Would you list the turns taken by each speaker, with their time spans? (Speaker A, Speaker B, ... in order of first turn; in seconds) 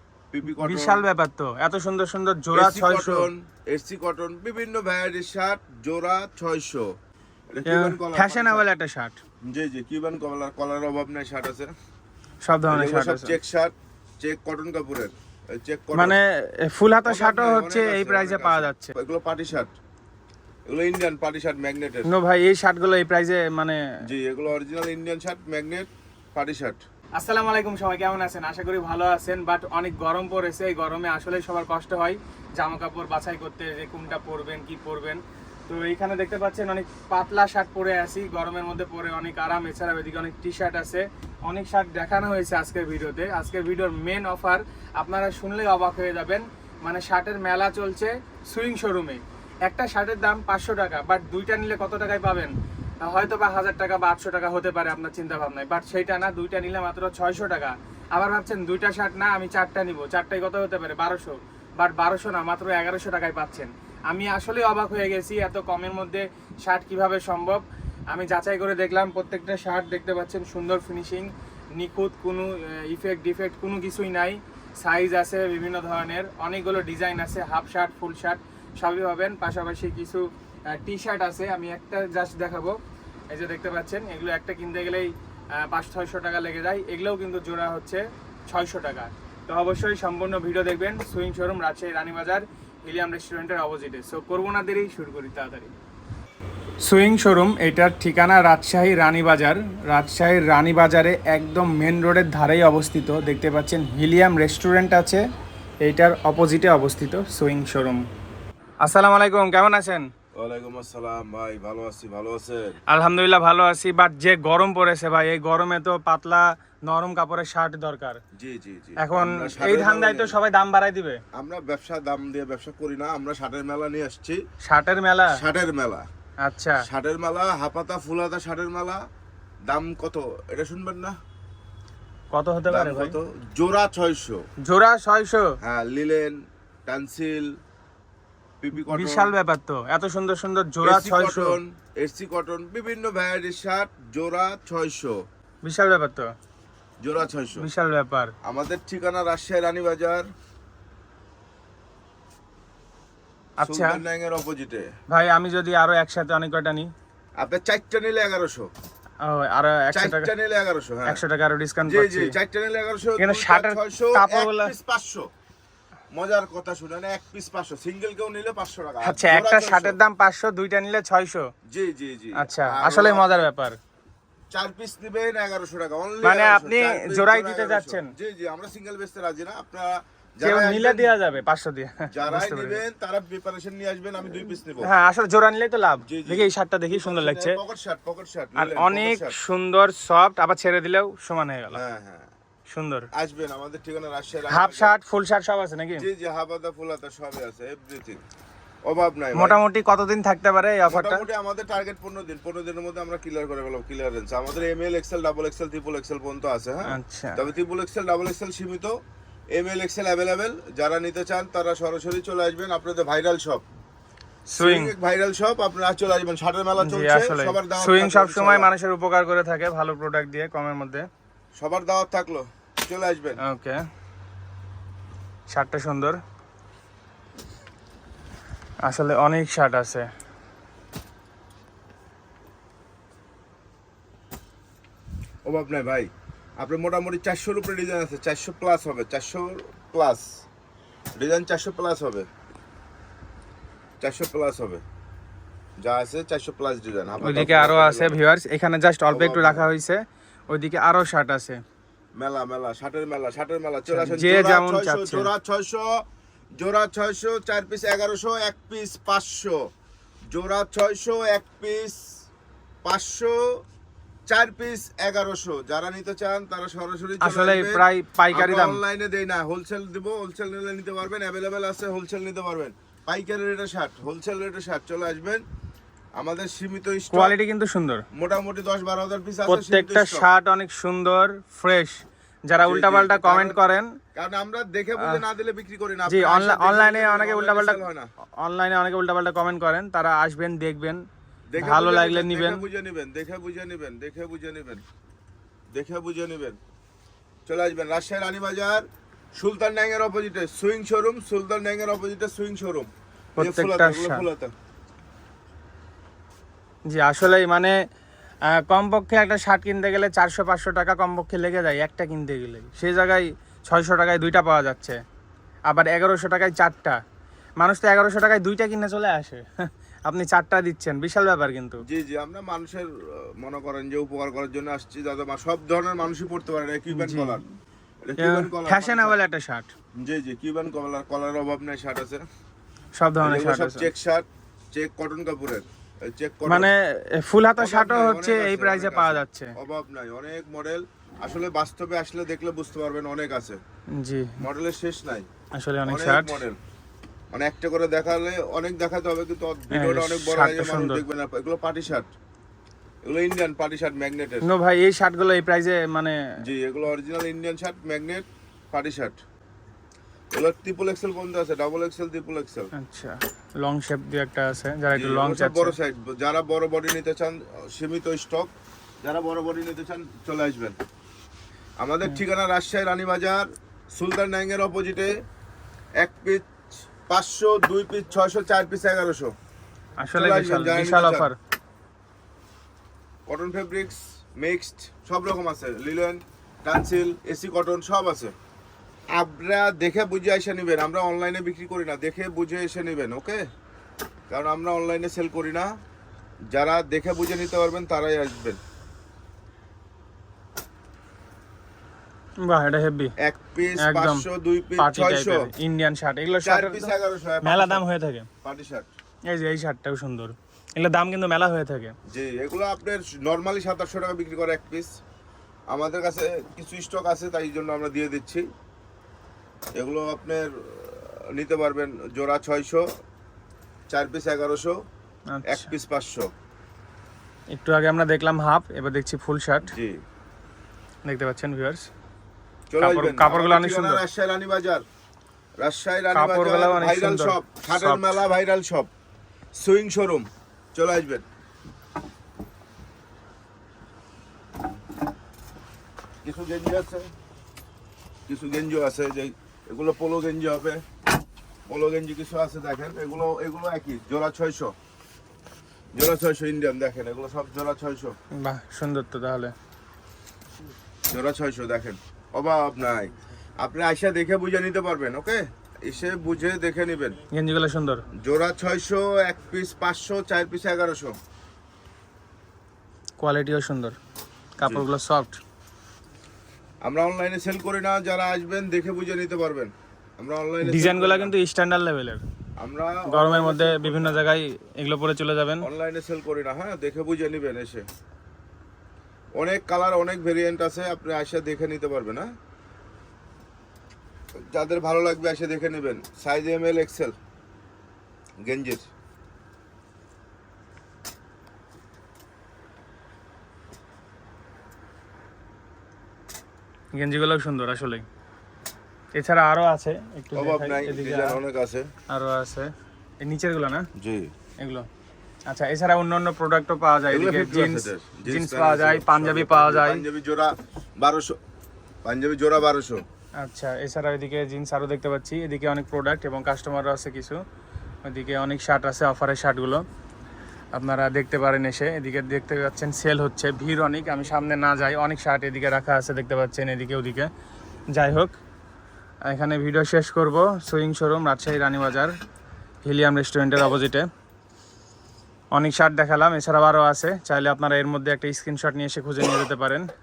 Speaker A: 0.3-1.0, 2.5-6.9, 7.5-8.6, 9.5-11.7, 12.7-16.2, 17.1-19.7, 20.7-22.1, 24.0-26.8, 110.4-112.8, 118.3-120.4, 121.3-124.4, 125.3-126.1, 126.8-129.0, 129.7-131.2, 132.7-134.4, 135.6-136.3, 136.9-137.5, 138.6-139.3, 140.8-145.2, 147.0-147.7, 148.4-150.3, 153.7-154.9, 157.4-158.7, 159.9-161.2, 161.9-165.3, 166.1-170.0, 171.7-173.5, 174.5-181.2, 182.1-184.9, 186.1-189.4, 191.7-192.3, 193.1-194.9, 196.0-198.2, 198.9-199.6, 200.8-208.9, 209.5-213.6, 214.6-218.7, 221.6-223.4, 235.4-240.2, 241.2-242.3, 244.0-244.8, 245.8-248.2, 249.1-249.7, 252.2-255.9, 256.6-259.6, 260.3-262.0, 262.9-263.4, 264.3-275.4, 276.2-277.4, 278.1-280.3, 282.6-283.6, 284.1-288.1, 291.5-294.8, 295.7-296.6, 297.5-304.5, 321.9-327.4, 328.1-329.2, 330.0-332.2, 333.2-336.7, 337.6-343.6, 344.4-345.3, 345.9-346.6, 347.3-352.1, 353.1-354.4, 356.4-359.2, 360.3-362.7, 364.9-368.5, 369.0-370.8, 371.8-375.1, 376.0-376.4, 377.1-379.3, 380.1-381.3, 383.3-388.3, 389.2-393.4, 394.3-395.7, 396.5-398.6, 403.2-405.5, 406.4-407.9, 408.4-408.9, 412.1-414.9, 415.7-418.5, 419.8-422.8, 423.9-424.8, 425.5-426.3, 429.7-430.0, 432.7-434.8, 435.6-438.9, 439.6-441.2, 446.2-447.1, 448.3-450.8, 451.7-454.7, 455.9-458.2, 461.1-467.2, 468.2-471.1, 476.8-481.3, 482.6-484.2, 485.6-487.9, 489.4-492.3, 494.4-497.1, 498.4-498.9, 510.4-511.9, 514.0-514.3, 517.1-521.4, 522.0-523.0
Speaker B: 0.5-3.3, 7.7-9.2, 12.4-13.3, 15.9-18.9, 22.1-23.8, 27.2-82.8, 83.3-95.7, 96.8-105.2, 105.8-108.1, 108.8-110.1, 112.9-118.2, 119.0-121.2, 124.6-125.4, 126.4-126.8, 132.3-133.2, 134.6-135.5, 138.8-141.6, 145.7-146.3, 147.6-148.3, 153.6-154.0, 155.1-156.9, 159.2-160.3, 161.1-162.3, 163.2-164.7, 169.0-171.5, 172.4-173.8, 176.2-178.1, 180.4-182.8, 184.8-187.6, 188.6-191.8, 192.7-193.1, 194.5-196.1, 199.3-201.2, 206.9-207.4, 214.5-214.9, 216.8-221.1, 223.4-223.8, 225.5-226.2, 228.8-230.1, 247.2-251.6, 253.9-255.3, 267.2-268.8, 277.1-278.0, 279.5-283.9, 286.1-287.8, 288.4-291.1, 291.6-292.6, 303.4-304.3, 306.9-307.7, 308.5-315.0, 315.7-317.0, 317.6-321.8, 326.9-327.4, 328.2-329.7, 333.0-333.9, 336.5-339.5, 343.9-344.4, 345.6-346.4, 349.7-351.0, 354.4-356.2, 362.8-365.8, 380.0-381.4, 402.4-403.1, 403.8-404.2, 404.8-408.3, 409.3-411.9, 425.3-425.7, 427.5-429.7, 431.1-431.9, 432.8-434.0, 436.1-438.1, 458.3-459.5, 467.3-468.0, 473.2-474.0, 474.6-475.4, 480.6-482.2, 483.1-485.7, 506.9-508.0, 509.1-511.4, 512.1-513.9, 514.6-514.9, 515.5-520.0, 523.4-527.4, 528.1-529.8, 530.8-537.3, 537.9-538.3, 539.3-542.1, 542.9-544.1, 545.5-549.9